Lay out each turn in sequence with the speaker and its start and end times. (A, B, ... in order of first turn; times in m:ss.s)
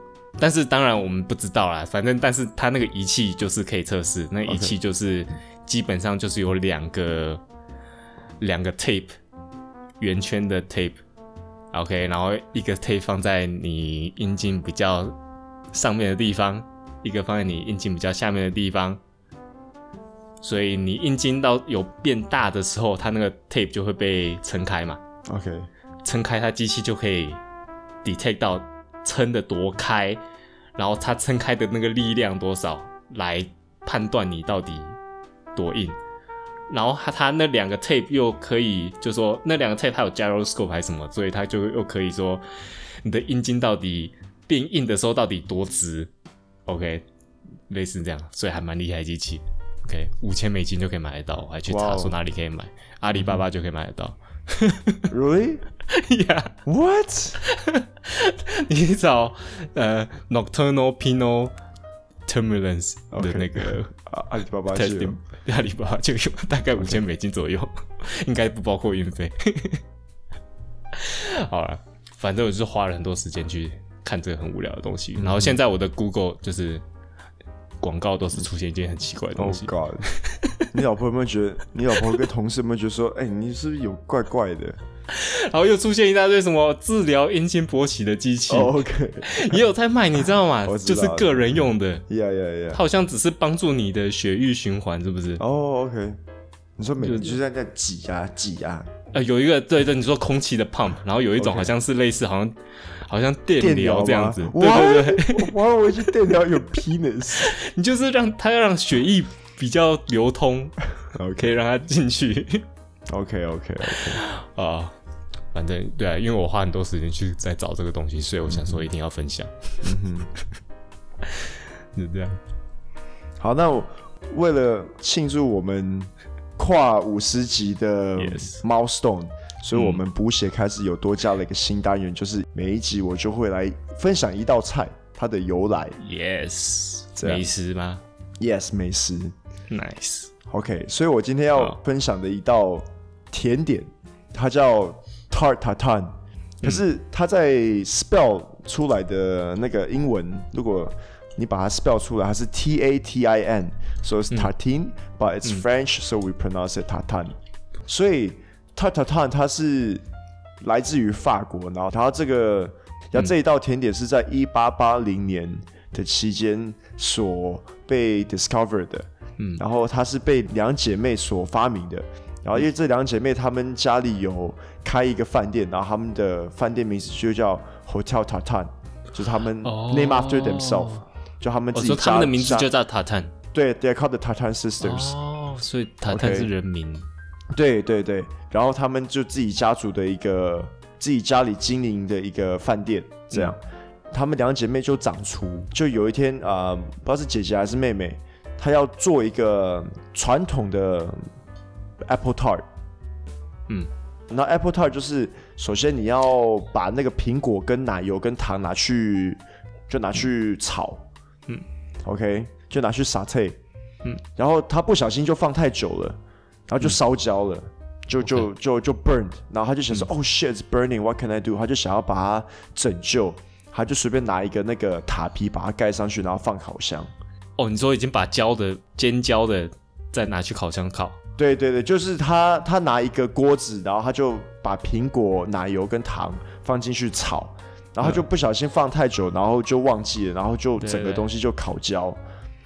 0:00.4-0:07.4 A
0:04.4-0:04.7 B
0:08.4-0:09.1 A
0:10.0-0:11.0 A
0:11.7-0:15.2 A
0:15.7-0:19.0 A
0:20.4-0:25.0 A
0:25.2-0:25.7 B
0:26.0-0:27.4 A
0:28.0-0:30.2 A
0:30.8-0:35.0 A
0:35.5-0:36.0 A
0:36.7-0:46.1 A
0:46.7-0:47.0 A
0:47.7-0:55.1 A
0:51.7-0:52.2 B
0:55.1-0:55.6 B
0:55.9-0:56.6 A
0:56.6-0:57.4 B
0:57.4-1:01.5 A
1:02.3-1:03.9 A
1:03.1-1:05.2 B
1:04.7-1:09.8 A
1:10.9-1:16.8 A
1:15.2-1:15.6 B
1:17.8-1:20.7 A
1:19.4-1:20.1 B
1:20.7-1:24.8 B
1:25.1-1:32.0 A
1:28.5-1:29.6 B
1:30.6-1:32.8 B
1:32.7-1:35.4 A
1:35.4-1:36.2 B
1:36.8-1:38.9 B
1:37.0-1:37.4 A
1:39.1-1:45.5 A
1:41.4-1:41.7 B
1:43.6-1:47.5 B
1:47.4-1:50.8 A
1:51.1-1:51.5 B
1:51.3-1:52.6 A
1:53.1-1:54.2 B
1:53.9-1:54.9 A
1:55.5-1:59.9 A
1:58.5-1:58.9 B
1:59.8-2:00.3 B
2:01.2-2:02.4 A
2:03.4-2:16.0 B
2:08.2-2:08.6 A
2:09.7-2:10.0 A
2:16.0-2:18.0 A
2:17.2-2:17.4 B
2:18.4-2:19.3 B
2:19.7-2:20.3 A
2:20.5-2:37.3 B
2:37.8-2:40.0 B
2:40.6-3:02.7 B
2:59.6-3:01.0 A
3:01.7-3:03.3 A
3:03.5-3:05.1 B
3:04.8-3:07.0 A
3:06.1-3:06.5 B
3:07.5-3:13.6 B
3:14.1-3:21.3 B
3:22.0-3:22.6 B
3:24.3-3:31.0 B
3:32.0-3:33.6 B
3:34.4-3:36.2 B
3:36.7-3:47.1 B
3:38.2-3:38.5 A
3:47.6-3:51.2 A
3:51.4-4:02.2 B
4:00.8-4:01.3 A